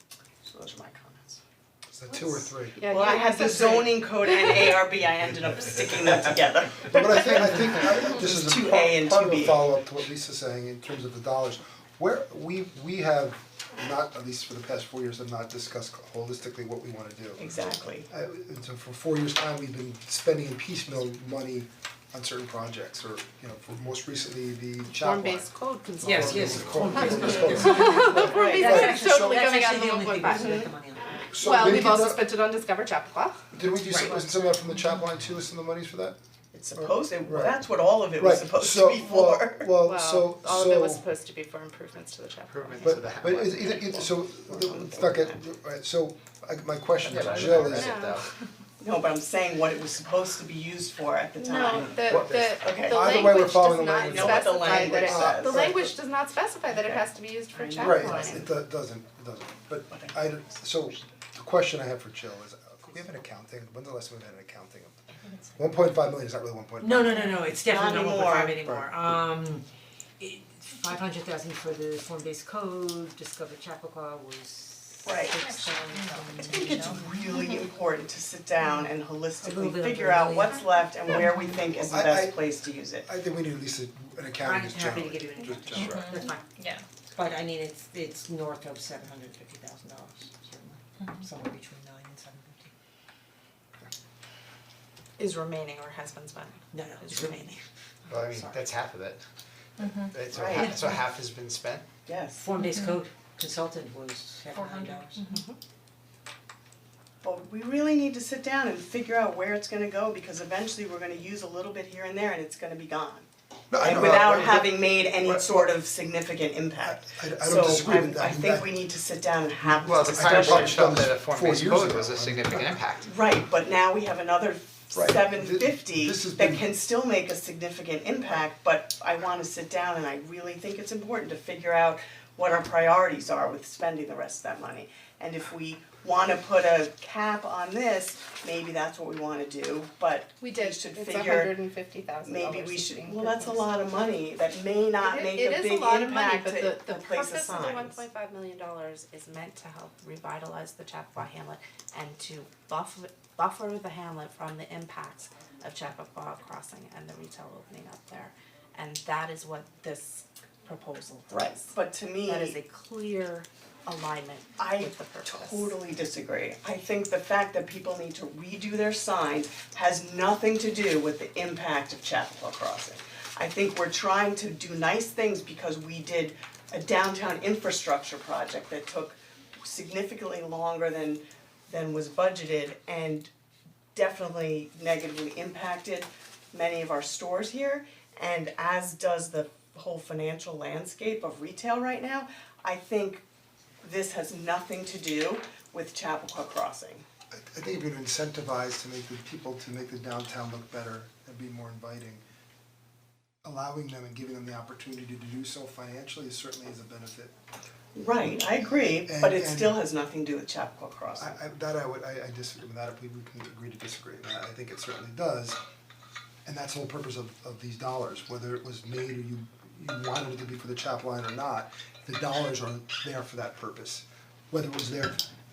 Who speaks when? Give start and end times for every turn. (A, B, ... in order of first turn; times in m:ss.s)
0:00.4-0:01.4 A
0:01.9-0:02.8 B
0:02.8-0:04.6 C
0:02.9-0:09.6 A
0:05.4-0:17.5 B
0:17.4-0:18.1 A
0:18.1-0:29.6 B
0:24.9-0:30.7 C
0:26.0-0:31.2 D
0:28.2-0:28.9 A
0:31.3-0:32.2 B
0:31.4-0:33.4 C
0:33.5-0:36.2 B
0:33.8-0:34.2 D
0:36.5-0:39.7 A
0:36.8-0:37.6 B
0:38.2-0:41.0 B
0:39.8-0:44.0 C
0:42.5-0:43.7 E
0:42.8-0:48.1 B
0:44.3-0:45.4 A
0:47.0-0:48.3 E
0:47.4-0:48.2 C
0:48.8-0:53.3 A
0:51.4-0:58.4 C
0:52.0-0:55.9 B
0:54.0-0:55.7 A
0:56.7-0:58.5 A
0:57.8-1:07.2 B
1:06.8-1:09.6 D
1:07.6-1:08.6 A
1:08.6-1:08.9 B
1:10.2-1:17.1 D
1:15.0-1:15.4 A
1:15.4-1:17.4 F
1:16.4-1:23.1 A
1:19.4-1:20.6 D
1:21.8-1:22.4 B
1:23.0-1:26.2 B
1:24.4-1:26.5 D
1:25.7-1:26.8 F
1:27.1-1:32.7 D
1:35.2-1:37.6 C
1:36.7-1:38.7 D
1:38.1-1:39.2 E
1:39.8-1:40.2 F
1:39.8-1:41.8 E
1:40.3-1:40.8 A
1:40.4-1:40.9 D
1:42.0-1:42.5 A
1:42.4-1:45.2 D
1:42.6-1:42.9 F
1:44.5-1:45.4 F
1:45.2-1:45.6 C
1:47.2-1:53.3 A
1:53.7-1:55.8 B
1:53.8-2:00.9 A
1:56.8-1:58.8 B
1:59.6-2:02.8 B
1:59.8-2:03.1 E
2:03.0-2:21.6 A
2:04.9-2:06.6 B
2:20.4-2:23.7 C
2:22.2-2:28.0 A
2:25.0-2:45.8 C
2:41.3-2:42.6 A
2:44.6-3:03.3 A
3:03.9-3:13.2 A
3:13.8-3:17.0 A
3:17.3-3:22.2 B
3:23.4-3:27.3 B
3:27.9-3:31.4 A
3:29.0-3:29.8 B
3:31.2-3:35.6 B
3:36.4-3:45.2 B